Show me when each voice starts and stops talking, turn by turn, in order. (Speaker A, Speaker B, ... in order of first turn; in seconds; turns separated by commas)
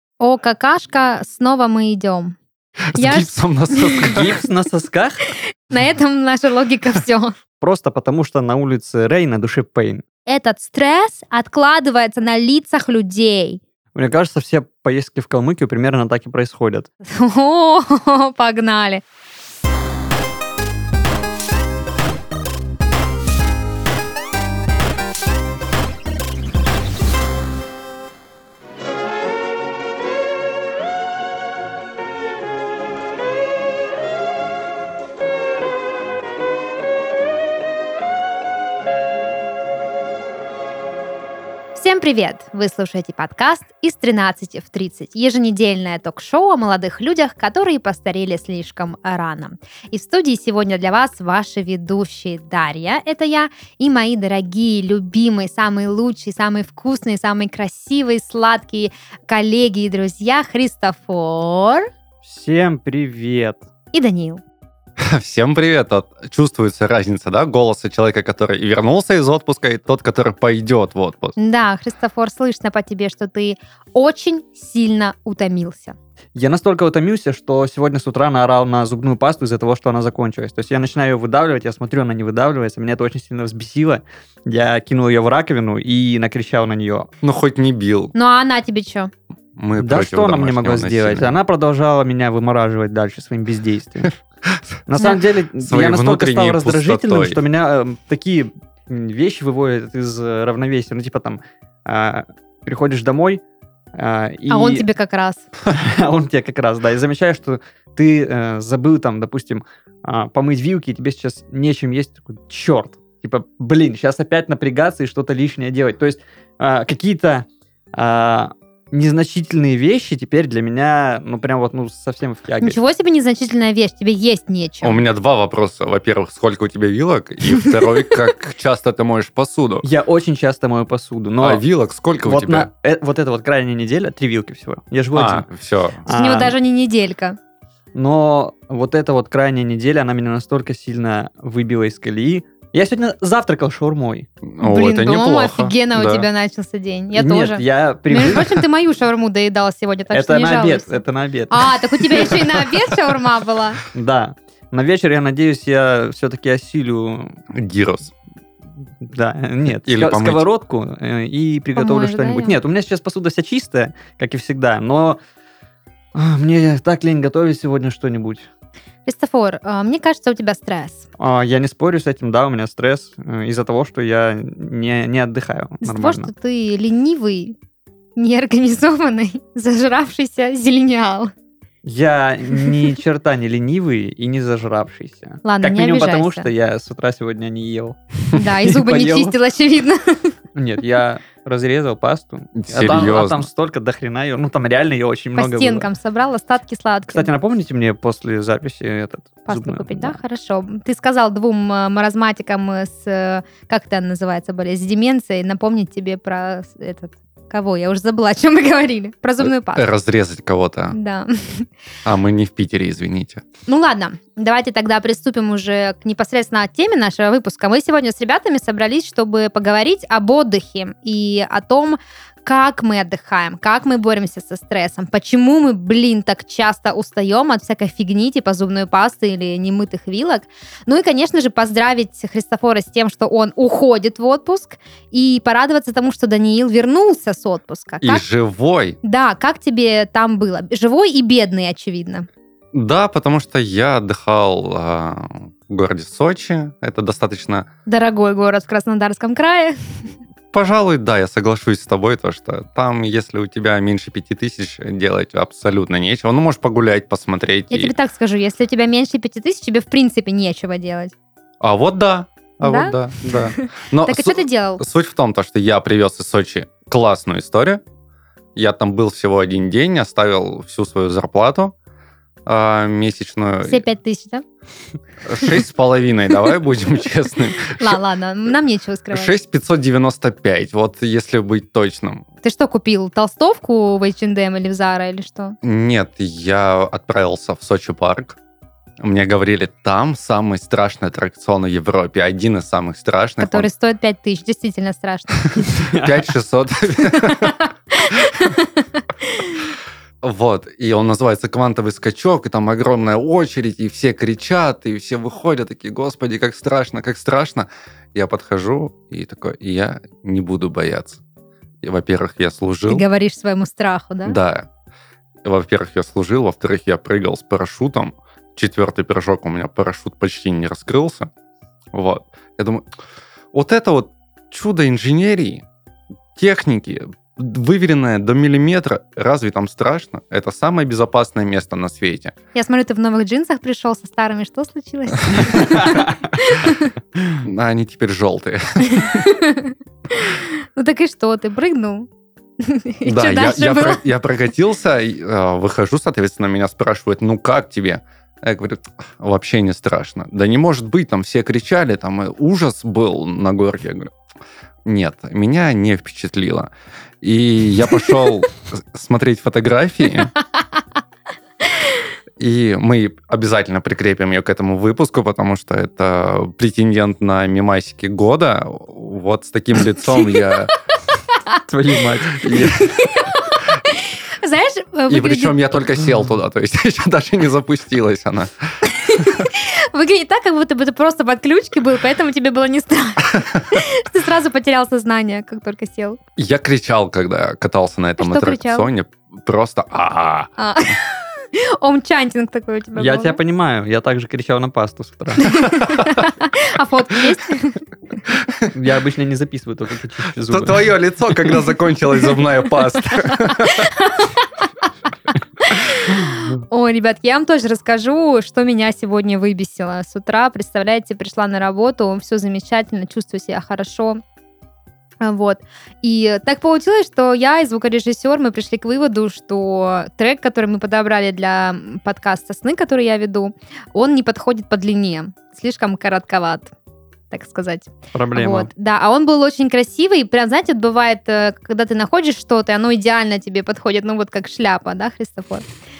Speaker A: 0.2-2.4, Speaker B: 2.9-4.2, Speaker A: 2.9-4.1, Speaker C: 4.0-5.2, Speaker A: 5.3-7.3, Speaker C: 7.6-10.0, Speaker A: 10.2-13.6, Speaker C: 13.9-16.9, Speaker A: 17.0-19.0, Speaker A: 41.7-61.9, Speaker C: 62.2-63.6, Speaker A: 63.9-64.4, Speaker B: 65.0-71.3, Speaker A: 71.4-76.0, Speaker C: 76.3-87.1, Speaker B: 87.2-88.1, Speaker A: 88.1-89.1, Speaker B: 89.5-91.4, Speaker C: 89.8-94.1, Speaker C: 94.9-103.4, Speaker B: 95.6-97.4, Speaker C: 103.9-104.8, Speaker A: 104.5-105.5, Speaker C: 105.7-122.8, Speaker A: 122.6-125.0, Speaker B: 124.8-129.8, Speaker C: 129.8-131.6, Speaker B: 131.4-132.7, Speaker C: 132.2-135.5, Speaker B: 135.1-136.0, Speaker C: 136.0-136.5, Speaker A: 136.1-137.4, Speaker C: 137.9-144.3, Speaker B: 144.4-146.2, Speaker A: 144.6-153.8, Speaker C: 147.1-148.6, Speaker C: 150.1-152.5, Speaker C: 153.9-157.3, Speaker B: 157.5-158.1, Speaker C: 159.0-165.2, Speaker B: 159.8-160.5, Speaker A: 161.8-162.6, Speaker C: 166.1-168.5, Speaker A: 169.1-171.1, Speaker C: 171.2-176.3, Speaker A: 175.8-177.6, Speaker A: 178.2-181.3, Speaker C: 181.8-189.3, Speaker A: 185.4-186.5, Speaker A: 188.3-190.3, Speaker C: 190.5-195.9, Speaker B: 192.5-193.4, Speaker A: 195.3-197.3, Speaker C: 197.1-200.2, Speaker A: 199.5-209.8, Speaker B: 209.4-210.9, Speaker A: 210.9-211.7, Speaker B: 212.0-213.4, Speaker A: 213.7-238.2, Speaker B: 238.0-239.0, Speaker A: 239.0-242.3, Speaker B: 242.7-247.7, Speaker A: 247.9-250.1, Speaker B: 250.5-257.9, Speaker A: 257.7-261.1, Speaker B: 261.6-267.8, Speaker A: 262.6-264.8, Speaker B: 268.6-271.7, Speaker B: 272.4-273.8, Speaker A: 273.6-274.4, Speaker B: 275.2-278.0, Speaker A: 277.7-279.3, Speaker B: 279.1-282.2, Speaker A: 282.4-285.6, Speaker B: 285.6-288.4, Speaker B: 289.0-293.7, Speaker A: 293.4-295.5, Speaker C: 295.7-296.2, Speaker B: 296.0-297.6, Speaker A: 297.2-298.8, Speaker B: 300.2-311.2, Speaker B: 311.8-313.0, Speaker A: 312.9-314.4, Speaker B: 314.2-314.7, Speaker B: 315.4-321.3, Speaker B: 321.9-322.8, Speaker B: 323.5-325.6, Speaker B: 326.4-332.3, Speaker A: 332.5-336.9, Speaker B: 337.4-339.2, Speaker A: 338.9-342.1, Speaker A: 342.6-344.0, Speaker B: 343.0-354.1, Speaker B: 354.9-356.7, Speaker B: 357.2-360.3, Speaker B: 362.4-370.7, Speaker C: 371.7-372.6, Speaker B: 372.4-372.8, Speaker A: 372.8-375.5, Speaker B: 375.1-378.5, Speaker A: 379.0-386.2, Speaker B: 386.4-390.5, Speaker A: 388.2-388.9, Speaker A: 390.6-393.4, Speaker C: 393.0-395.5, Speaker A: 395.4-397.8, Speaker B: 395.8-396.1, Speaker C: 398.7-400.9, Speaker B: 400.5-403.9, Speaker A: 403.8-404.5, Speaker A: 405.6-414.2, Speaker A: 415.2-426.7, Speaker A: 427.3-435.6, Speaker C: 428.1-428.7